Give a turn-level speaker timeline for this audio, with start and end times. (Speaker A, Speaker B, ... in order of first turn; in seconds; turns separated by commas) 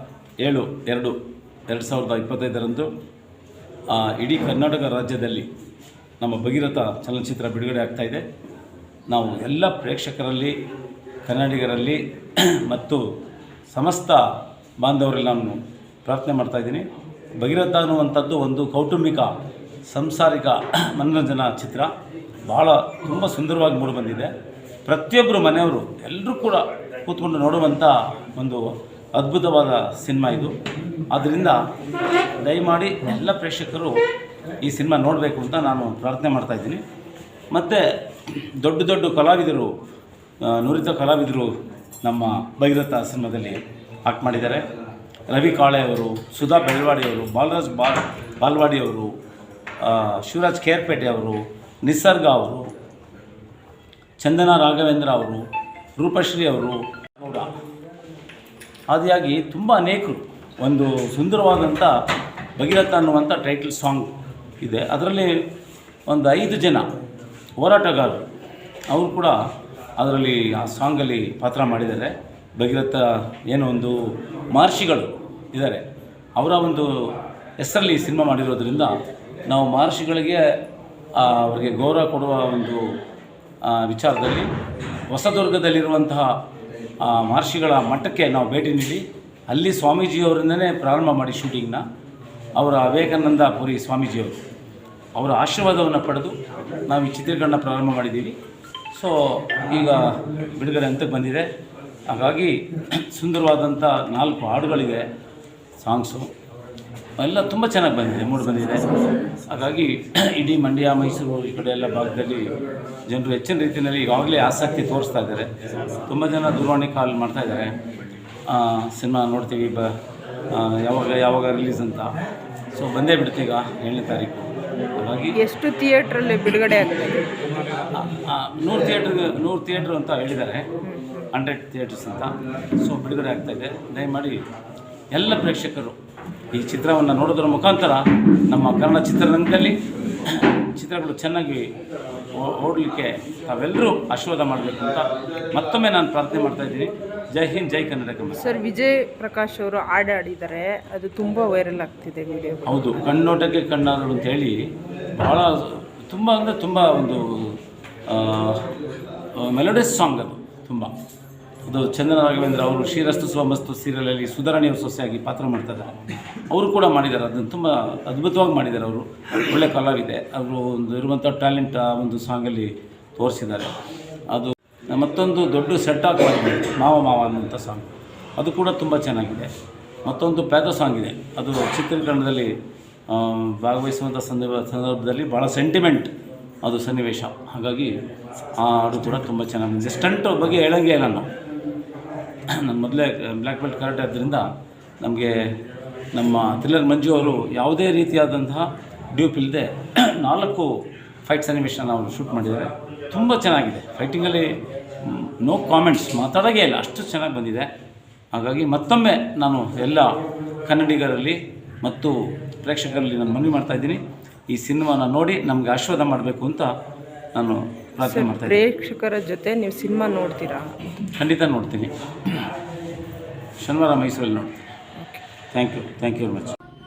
Speaker A: 0.4-1.1, Speaker A: 1.7-2.9, Speaker A: 3.9-5.5, Speaker A: 6.2-8.2, Speaker A: 9.1-10.5, Speaker A: 11.2-13.0, Speaker A: 13.7-14.2, Speaker A: 14.8-16.8, Speaker A: 17.4-19.3, Speaker A: 19.9-21.9, Speaker A: 22.5-24.3, Speaker A: 24.9-30.5, Speaker A: 31.1-31.6, Speaker A: 32.4-34.0, Speaker A: 34.6-36.8, Speaker A: 37.5-39.7, Speaker A: 40.4-41.5, Speaker A: 42.0-44.6, Speaker A: 45.3-49.1, Speaker A: 49.8-52.6, Speaker A: 54.2-55.4, Speaker A: 56.0-57.5, Speaker A: 58.9-61.9, Speaker A: 62.6-65.4, Speaker A: 66.1-66.8, Speaker A: 67.6-68.2, Speaker A: 68.9-69.3, Speaker A: 70.0-74.0, Speaker A: 74.5-75.8, Speaker A: 76.4-76.9, Speaker A: 77.6-78.9, Speaker A: 79.5-80.4, Speaker A: 81.1-82.8, Speaker A: 83.6-84.5, Speaker A: 85.1-86.3, Speaker A: 87.0-91.8, Speaker A: 92.6-94.4, Speaker A: 95.2-96.3, Speaker A: 96.9-98.3, Speaker A: 98.9-101.5, Speaker A: 102.1-105.0, Speaker A: 105.8-106.3, Speaker A: 107.2-112.5, Speaker A: 113.1-115.5, Speaker A: 116.0-117.7, Speaker A: 118.5-119.9, Speaker A: 120.5-122.1, Speaker A: 122.7-125.4, Speaker B: 125.3-127.4, Speaker A: 127.9-130.7, Speaker A: 131.3-134.4, Speaker A: 135.1-136.0, Speaker A: 136.5-139.8, Speaker A: 140.3-141.7, Speaker A: 142.3-148.4, Speaker B: 148.4-152.8, Speaker A: 152.7-154.6, Speaker A: 155.1-158.7, Speaker A: 159.4-160.9, Speaker A: 161.7-165.9, Speaker A: 166.5-173.7, Speaker A: 174.3-179.5, Speaker A: 180.0-182.5, Speaker A: 183.1-186.1, Speaker A: 186.6-187.9, Speaker A: 188.6-191.3, Speaker A: 192.5-194.5, Speaker A: 195.0-195.3, Speaker A: 196.1-200.7, Speaker A: 201.2-204.5, Speaker A: 205.0-207.7, Speaker A: 208.3-216.7, Speaker A: 217.3-218.6, Speaker B: 218.0-220.8, Speaker A: 221.1-222.5, Speaker A: 223.6-224.6, Speaker B: 225.0-225.2, Speaker A: 225.5-226.5